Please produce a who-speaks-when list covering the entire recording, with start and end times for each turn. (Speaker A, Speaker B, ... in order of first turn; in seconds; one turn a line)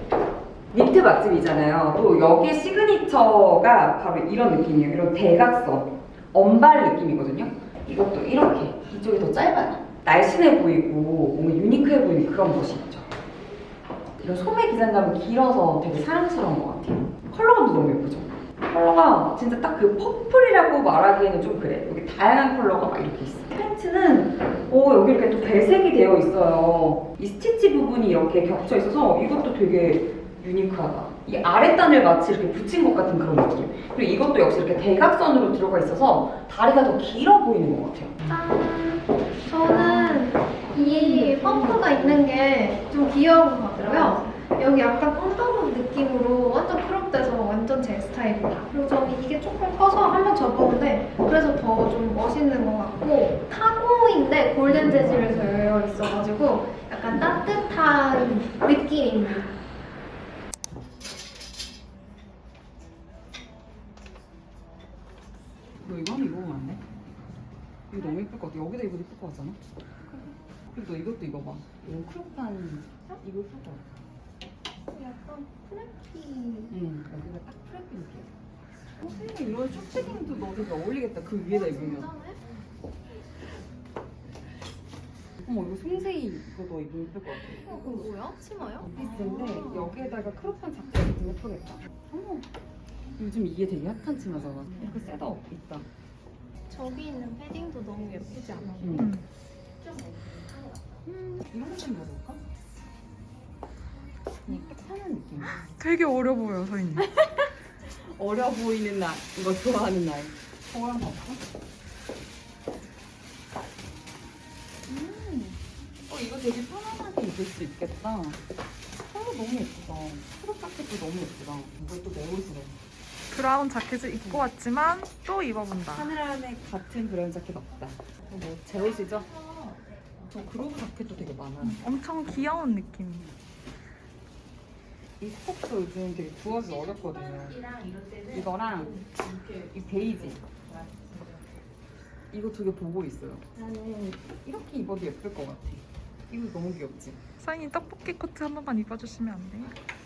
Speaker A: 0.7-13.1
Speaker A: 14.2-38.2
Speaker B: 38.3-59.5
Speaker A: 39.7-42.2
Speaker A: 43.8-44.4
Speaker A: 54.7-55.5
Speaker A: 65.8-66.8
Speaker A: 67.9-69.6
Speaker A: 70.1-73.9
Speaker B: 74.9-76.8
Speaker A: 76.7-78.3
Speaker A: 79.0-82.1
Speaker B: 81.3-82.4
Speaker A: 85.4-88.0
Speaker B: 87.7-89.9
Speaker A: 88.8-92.5
Speaker A: 93.2-95.9
Speaker B: 96.7-99.1
Speaker A: 98.8-99.1
Speaker C: 99.0-99.2
Speaker A: 101.0-102.4
Speaker A: 104.5-105.6
Speaker C: 105.6-107.1
Speaker A: 107.2-111.4
Speaker A: 114.9-118.4
Speaker A: 119.0-122.8
Speaker C: 123.3-126.1
Speaker A: 125.9-129.3
Speaker A: 130.2-131.8
Speaker C: 131.6-133.3
Speaker A: 135.2-137.7
Speaker A: 138.2-140.7
Speaker A: 142.3-147.2
Speaker C: 147.4-149.7